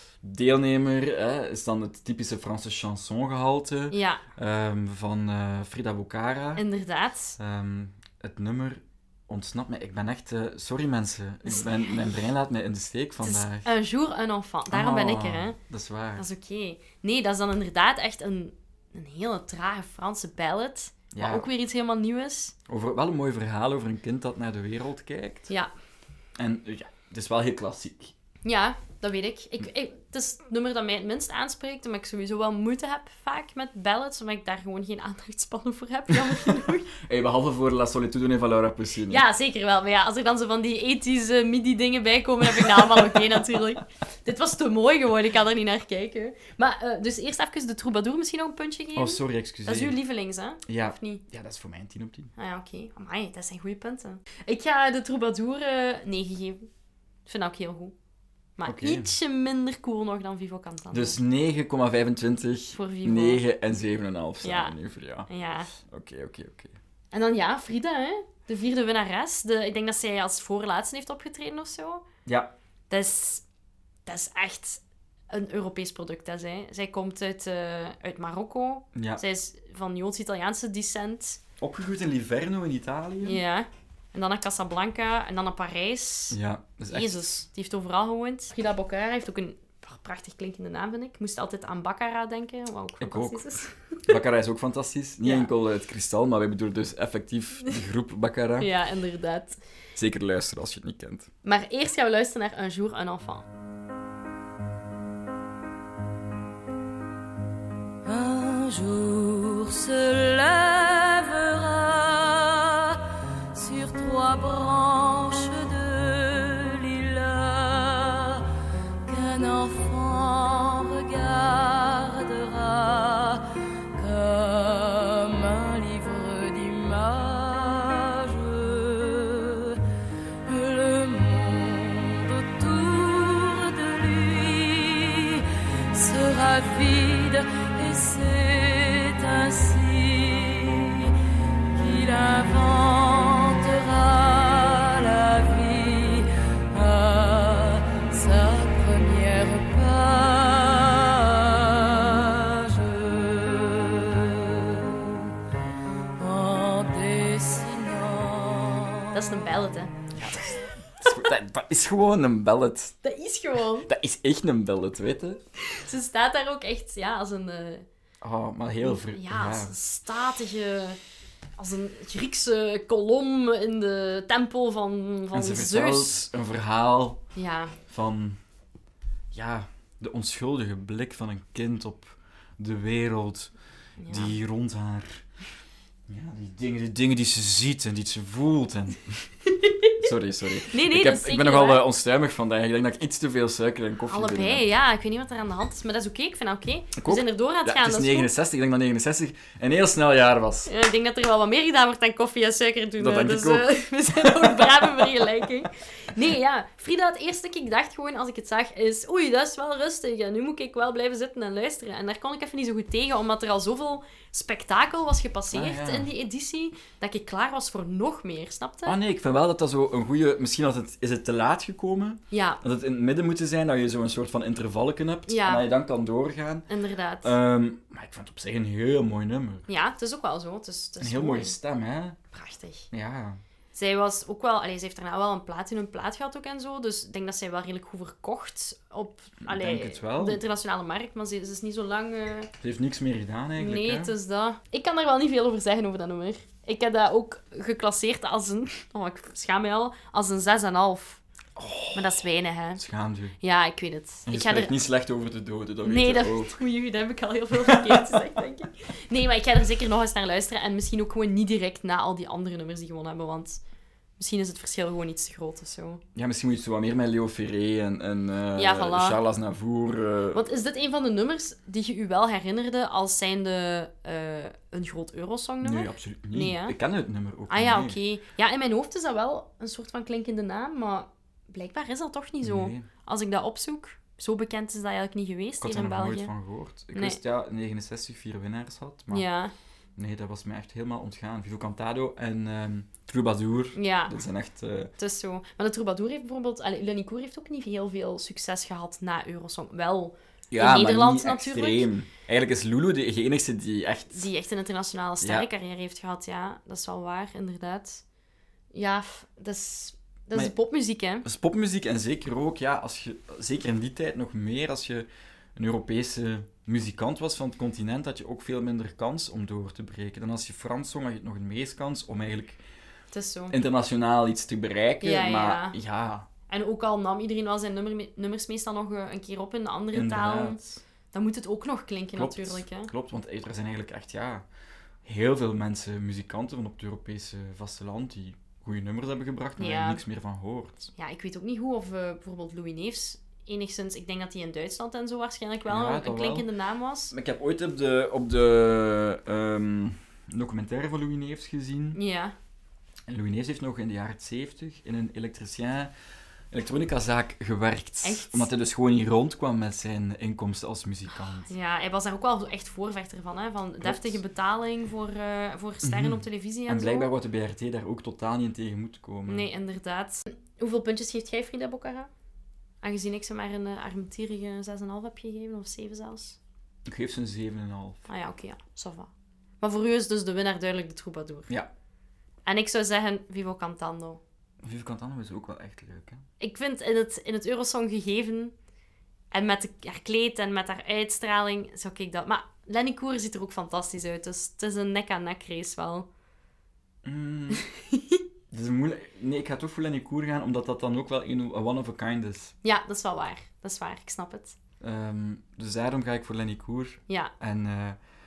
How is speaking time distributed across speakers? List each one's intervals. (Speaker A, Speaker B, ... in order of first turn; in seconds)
Speaker A: 0.2-6.6, 7.4-13.7, 14.7-16.2, 21.1-21.5, 22.7-25.5, 26.4-28.1, 36.9-39.2, 42.5-43.2, 49.0-50.0, 50.7-52.3, 58.6-59.1, 60.9-66.8, 72.2-72.5, 78.9-79.2, 81.6-83.4, 86.3-87.2, 93.0-93.4, 94.0-98.7, 100.0-101.3, 160.1-162.9, 163.8-165.4, 168.2-169.7, 175.3-177.2, 177.9-178.4, 179.3-183.5, 184.1-185.2, 186.1-189.2, 190.0-194.6, 197.0-200.7, 203.0-205.1, 215.5-216.1, 218.8-226.7, 227.2-229.7, 231.0-232.2, 232.9-233.4, 239.4-240.4, 242.6-244.1, 251.6-252.2, 252.8-253.4, 254.2-256.5, 257.6-258.2, 266.1-270.5, 275.6-278.0, 282.4-282.9, 285.6-289.2, 289.9-294.9, 300.5-304.3, 305.2-305.5, 311.2-322.6, 323.5-326.3, 329.9-330.6, 332.1-334.5, 335.0-340.9, 345.7-346.5, 347.1-352.0, 353.1-355.9, 356.5-361.5, 363.8-364.2, 365.8-369.5, 376.9-378.1, 384.6-386.2, 397.0-397.6, 398.5-402.5, 404.8-408.0
Speaker B: 3.9-4.2, 6.5-7.4, 11.4-11.9, 13.2-15.6, 16.2-22.5, 28.4-36.9, 39.1-51.2, 52.4-56.7, 57.3-57.9, 58.6-61.2, 62.7-63.4, 64.4-64.7, 65.3-65.7, 67.1-72.0, 72.9-73.4, 74.0-81.4, 83.2-86.4, 86.9-94.1, 95.2-95.5, 98.6-99.6, 101.4-103.5, 159.1-159.9, 163.0-163.9, 165.6-167.8, 168.8-171.0, 171.6-176.2, 177.3-177.8, 184.0-184.3, 189.5-189.9, 190.7-191.8, 194.1-198.3, 200.7-219.0, 222.3-222.6, 225.3-225.6, 226.7-227.3, 229.7-231.6, 232.3-232.9, 233.7-242.5, 243.6-251.2, 251.9-252.8, 253.4-254.7, 255.8-263.6, 264.2-266.0, 268.6-269.2, 270.3-276.7, 277.5-286.3, 286.9-287.2, 289.1-289.5, 293.7-294.1, 295.0-301.9, 304.1-308.0, 308.7-311.2, 323.1-323.5, 325.0-325.8, 326.5-332.9, 339.6-340.0, 340.9-347.1, 351.9-352.3, 358.0-358.5, 361.4-367.1, 369.3-372.1, 372.8-376.4, 378.1-379.1, 379.6-381.5, 382.4-384.2, 386.4-388.5, 389.3-396.1, 397.5-398.2, 402.6-404.6
Speaker C: 108.0-113.0, 113.5-118.4, 119.0-129.8, 130.4-141.1, 141.7-154.9, 156.2-158.9